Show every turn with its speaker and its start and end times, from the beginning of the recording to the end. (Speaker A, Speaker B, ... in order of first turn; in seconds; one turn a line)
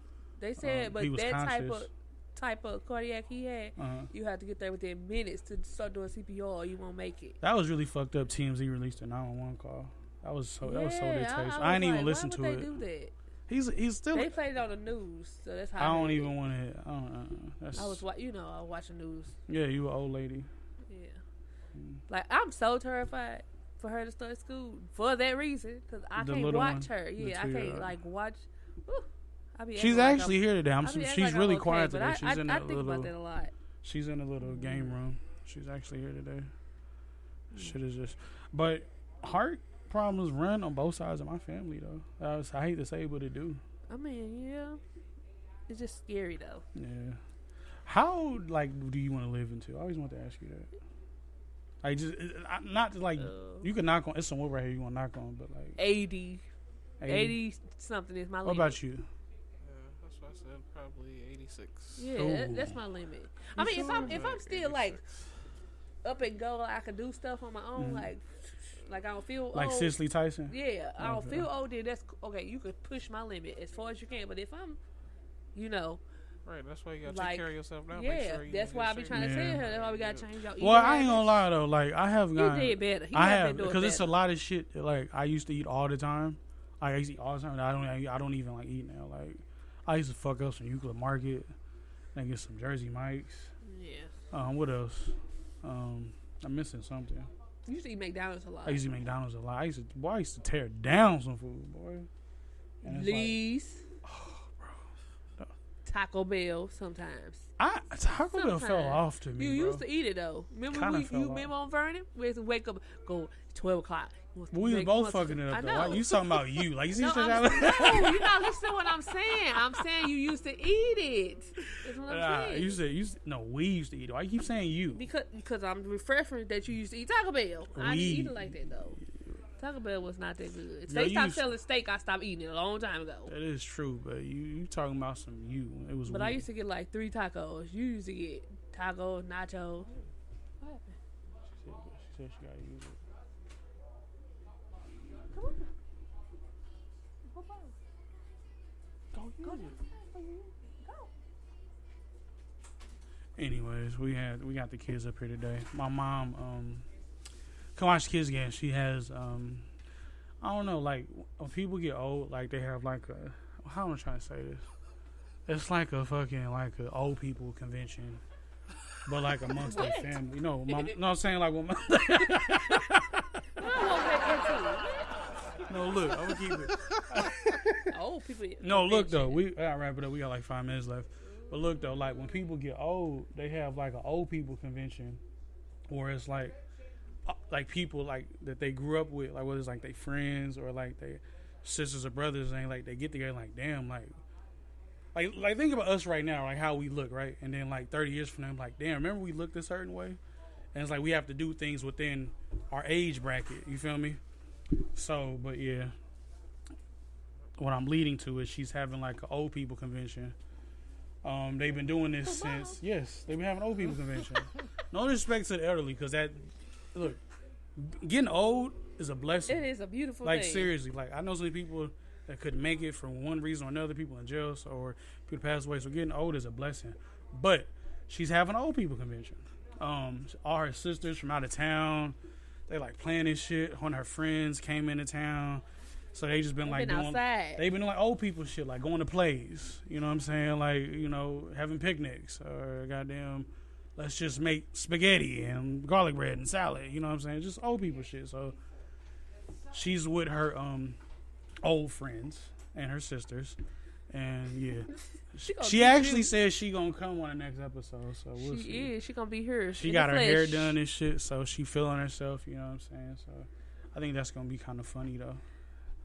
Speaker A: 0.4-7.4
Speaker B: 0.6-1.9
Speaker B: 3.8-4.1
Speaker B: 7.4-12.8
Speaker A: 10.6-13.1
Speaker B: 13.5-14.4
Speaker A: 14.1-16.3
Speaker B: 15.8-18.0
Speaker A: 17.8-19.4
Speaker B: 19.5-20.5
Speaker A: 20.9-21.2
Speaker B: 21.7-22.0
Speaker A: 22.1-33.5
Speaker B: 26.1-27.9
Speaker B: 29.7-33.1
Speaker B: 33.8-36.5
Speaker A: 34.4-34.9
Speaker B: 37.5-43.6
Speaker A: 43.9-44.8
Speaker A: 45.7-46.6
Speaker B: 46.7-47.2
Speaker B: 47.8-50.7
Speaker B: 51.8-55.8
Speaker A: 53.2-53.7
Speaker A: 55.8-56.4
Speaker B: 57.0-57.4
Speaker A: 57.0-58.8
Speaker B: 58.4-59.1
Speaker C: 59.6-62.1
Speaker A: 62.0-65.0
Speaker B: 62.1-62.8
Speaker B: 63.6-64.1
Speaker C: 63.6-65.2
Speaker A: 66.0-70.0
Speaker B: 67.7-68.1
Speaker B: 69.5-71.5
Speaker A: 70.5-74.8
Speaker A: 75.5-76.0
Speaker C: 76.4-80.3
Speaker A: 77.0-81.3
Speaker B: 79.1-79.6
Speaker B: 80.6-91.5
Speaker A: 82.3-84.1
Speaker B: 92.1-93.5
Speaker A: 93.6-94.1
Speaker B: 94.3-97.3
Speaker A: 97.7-99.0
Speaker B: 98.6-102.1
Speaker B: 102.8-103.4
Speaker A: 102.8-103.8
Speaker B: 104.0-104.8
Speaker A: 105.8-107.5
Speaker B: 107.6-109.8
Speaker A: 108.3-116.4
Speaker B: 110.7-111.5
Speaker B: 114.5-118.4
Speaker A: 117.0-122.7
Speaker B: 122.0-125.0
Speaker A: 124.9-129.0
Speaker B: 127.7-129.0
Speaker A: 129.6-133.3
Speaker B: 130.9-131.5
Speaker B: 133.3-136.4
Speaker A: 136.1-139.9
Speaker A: 140.6-140.9
Speaker B: 141.5-143.0
Speaker A: 145.3-145.7
Speaker A: 147.3-147.7
Speaker B: 149.1-149.8
Speaker A: 149.4-151.1
Speaker B: 153.4-156.9
Speaker B: 157.7-159.7
Speaker B: 160.4-164.7
Speaker B: 165.4-168.2
Speaker B: 169.1-173.4
Speaker A: 169.6-170.9
Speaker A: 173.6-174.9
Speaker B: 175.7-177.8
Speaker A: 177.9-179.4
Speaker B: 178.6-185.2
Speaker A: 181.4-181.9
Speaker B: 185.9-186.6
Speaker B: 187.2-194.2
Speaker B: 195.1-200.2
Speaker B: 200.7-204.2
Speaker B: 204.9-205.9
Speaker B: 207.6-210.3
Speaker B: 211.2-217.2
Speaker A: 212.2-212.8
Speaker B: 217.8-219.7
Speaker A: 219.5-220.7
Speaker B: 220.2-232.2
Speaker B: 232.7-248.6
Speaker A: 236.6-237.7
Speaker B: 249.7-251.0
Speaker B: 251.6-253.6
Speaker B: 254.1-258.9
Speaker A: 255.5-256.3
Speaker A: 258.4-260.8
Speaker B: 259.7-265.4